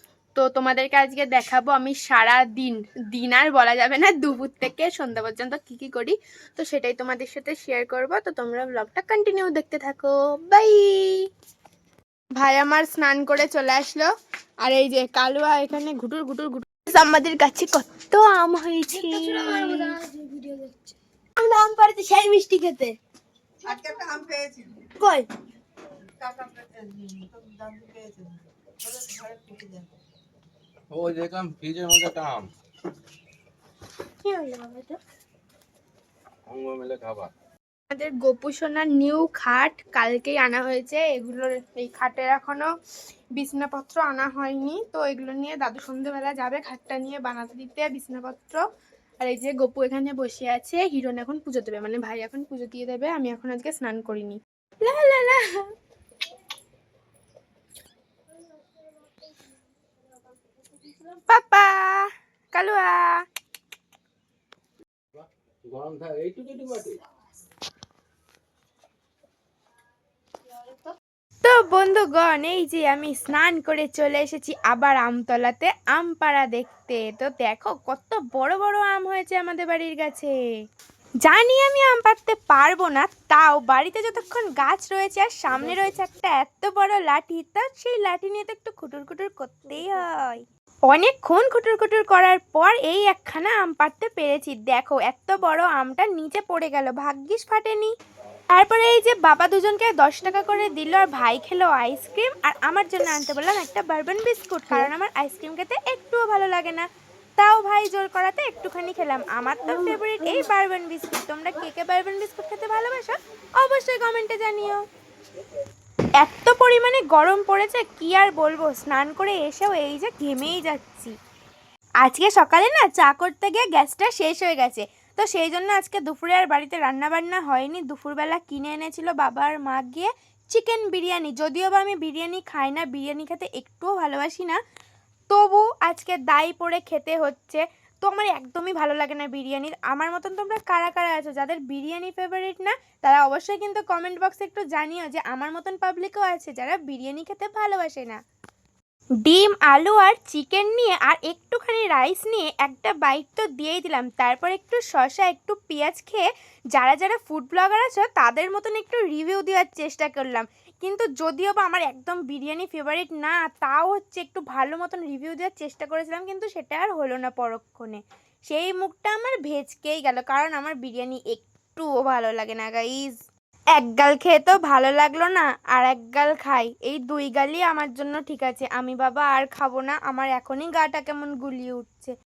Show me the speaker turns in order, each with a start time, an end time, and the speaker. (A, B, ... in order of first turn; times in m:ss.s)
0:00.4-0:11.2 A
0:12.4-0:14.1 A
0:14.6-0:20.0 A
0:18.9-0:23.0 B
0:23.6-0:24.8 C
0:25.0-0:25.3 B
0:26.2-0:29.9 C
0:30.9-0:32.5 D
0:34.2-0:34.9 B
0:36.5-0:37.3 D
0:37.9-0:42.7 A
0:43.4-0:48.6 A
0:49.2-0:55.7 A
1:01.2-1:03.2 A
1:05.1-1:07.0 D
1:11.4-1:20.4 A
1:21.2-1:37.9 A
1:38.5-1:46.9 A
1:47.4-1:54.8 A
1:49.7-1:50.5 B
1:56.2-2:01.2 A
2:02.0-2:14.6 A
2:15.3-2:28.2 A
2:29.2-2:53.2 A
2:53.7-3:02.2 A